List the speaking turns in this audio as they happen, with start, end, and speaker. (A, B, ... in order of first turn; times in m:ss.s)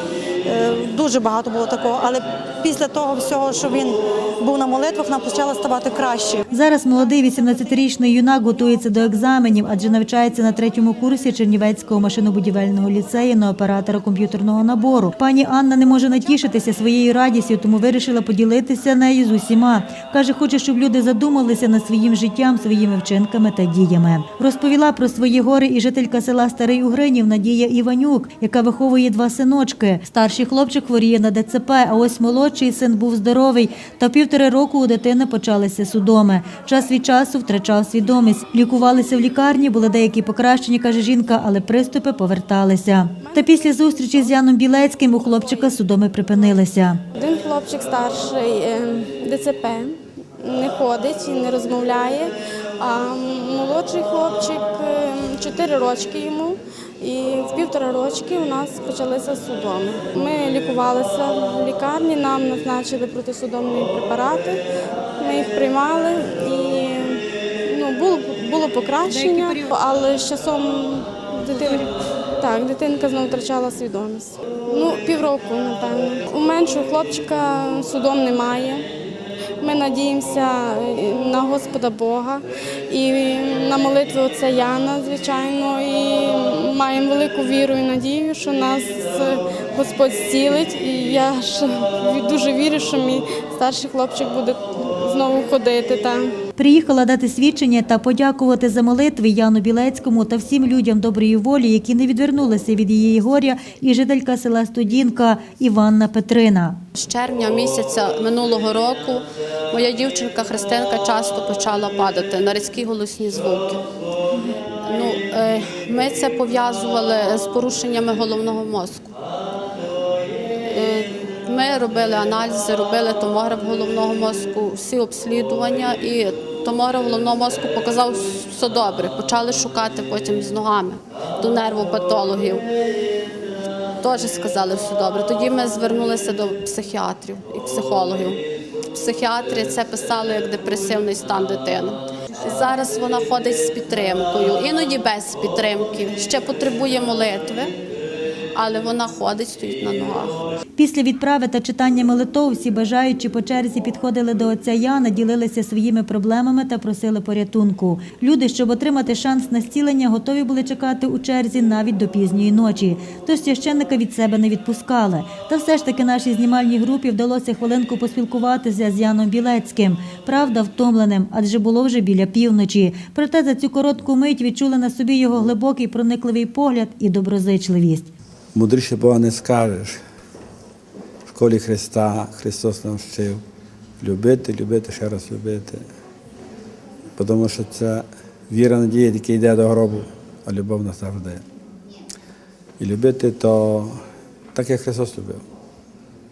0:00.4-0:06.5 A
0:06.5-0:47.0 B
0:43.2-0:43.6 C
0:47.1-1:04.6 C
1:05.2-1:18.9 C
1:09.1-1:09.7 B
1:19.6-1:36.4 C
1:36.6-1:46.8 B
1:47.0-1:53.8 D
1:54.8-1:59.1 D
2:00.7-2:12.7 D
2:14.0-2:18.4 D
2:18.9-2:27.7 D
2:28.6-2:30.4 D
2:30.8-2:58.1 B
2:58.6-3:00.0 E
3:01.3-3:03.4 E
3:04.0-3:05.8 E
3:07.2-3:11.4 E
3:12.8-3:14.0 E
3:14.6-3:15.4 E